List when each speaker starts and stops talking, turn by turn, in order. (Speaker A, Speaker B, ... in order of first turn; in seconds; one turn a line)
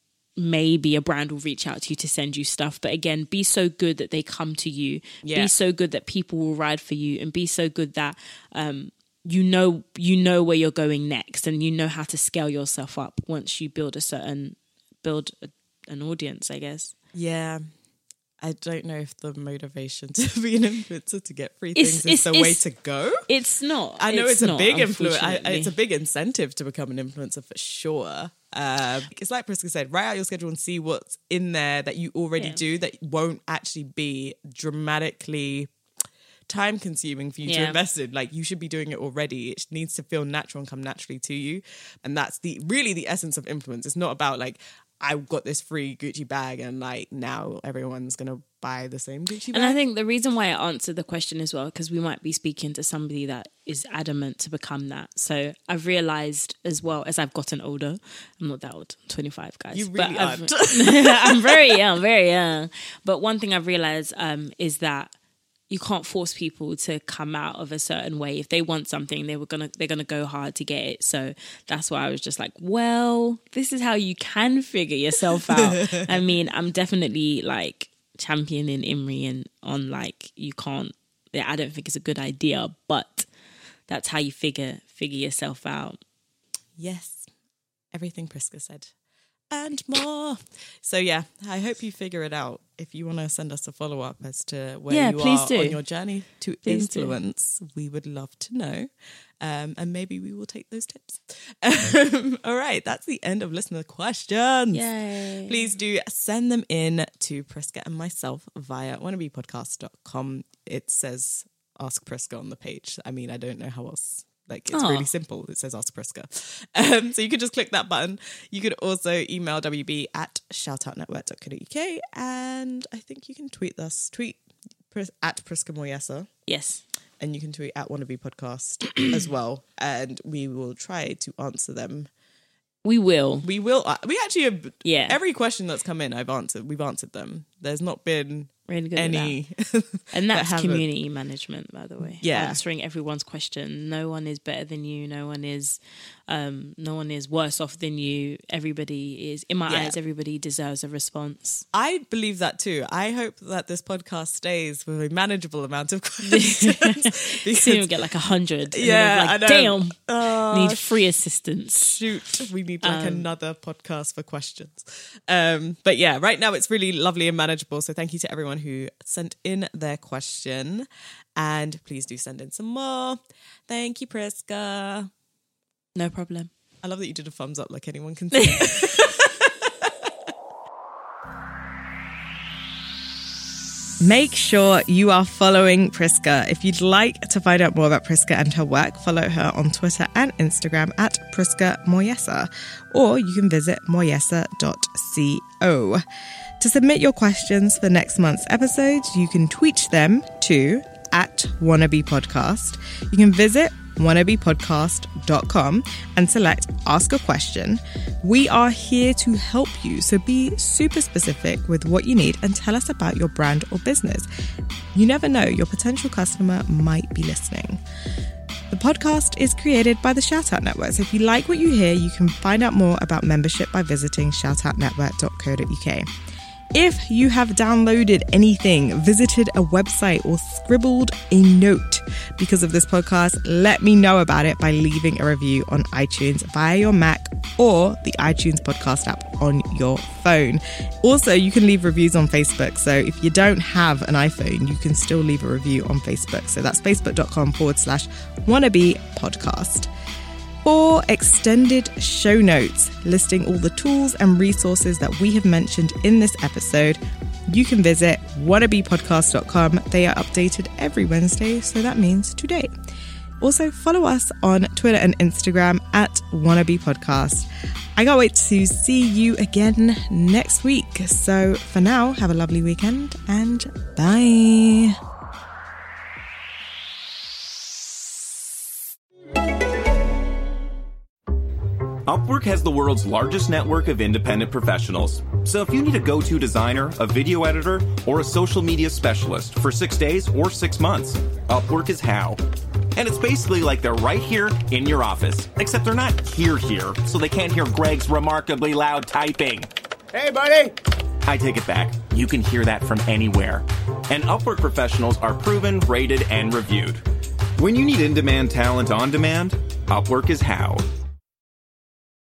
Speaker A: 0.4-16.9
Speaker B: 5.2-5.5
Speaker B: 17.1-17.6
Speaker B: 18.4-23.3
Speaker A: 21.8-22.6
Speaker A: 23.3-25.7
Speaker B: 24.0-35.7
Speaker B: 36.5-49.8
Speaker A: 37.5-37.8
Speaker A: 49.5-65.1
Speaker B: 59.7-61.7
Speaker A: 65.7-83.3
Speaker B: 75.5-76.1
Speaker A: 83.9-86.0
Speaker B: 86.8-87.3
Speaker B: 87.9-88.9
Speaker B: 89.5-98.9
Speaker A: 94.9-95.8
Speaker A: 96.7-97.2
Speaker B: 99.4-104.9
Speaker A: 104.7-105.7
Speaker B: 105.5-124.4
Speaker A: 114.7-115.1
Speaker B: 124.9-126.3
Speaker A: 126.5-126.8
Speaker B: 127.2-132.1
Speaker A: 132.8-133.5
Speaker B: 133.4-140.8
Speaker A: 134.8-135.2
Speaker A: 138.7-139.3
Speaker A: 140.1-151.6
Speaker B: 142.2-142.6
Speaker B: 149.7-150.0
Speaker B: 151.7-157.9
Speaker A: 156.3-162.0
Speaker B: 158.7-160.8
Speaker B: 161.8-175.1
Speaker A: 162.8-163.3
Speaker A: 176.0-176.5
Speaker B: 176.8-179.9
Speaker A: 178.4-178.8
Speaker B: 184.0-196.0
Speaker B: 196.6-214.3
Speaker B: 214.9-217.8
Speaker B: 218.7-226.1
Speaker B: 226.7-249.9
Speaker B: 250.6-262.7
Speaker B: 263.4-275.0
Speaker C: 282.1-292.4
Speaker C: 292.9-300.6
Speaker C: 301.2-307.0
Speaker C: 307.6-310.9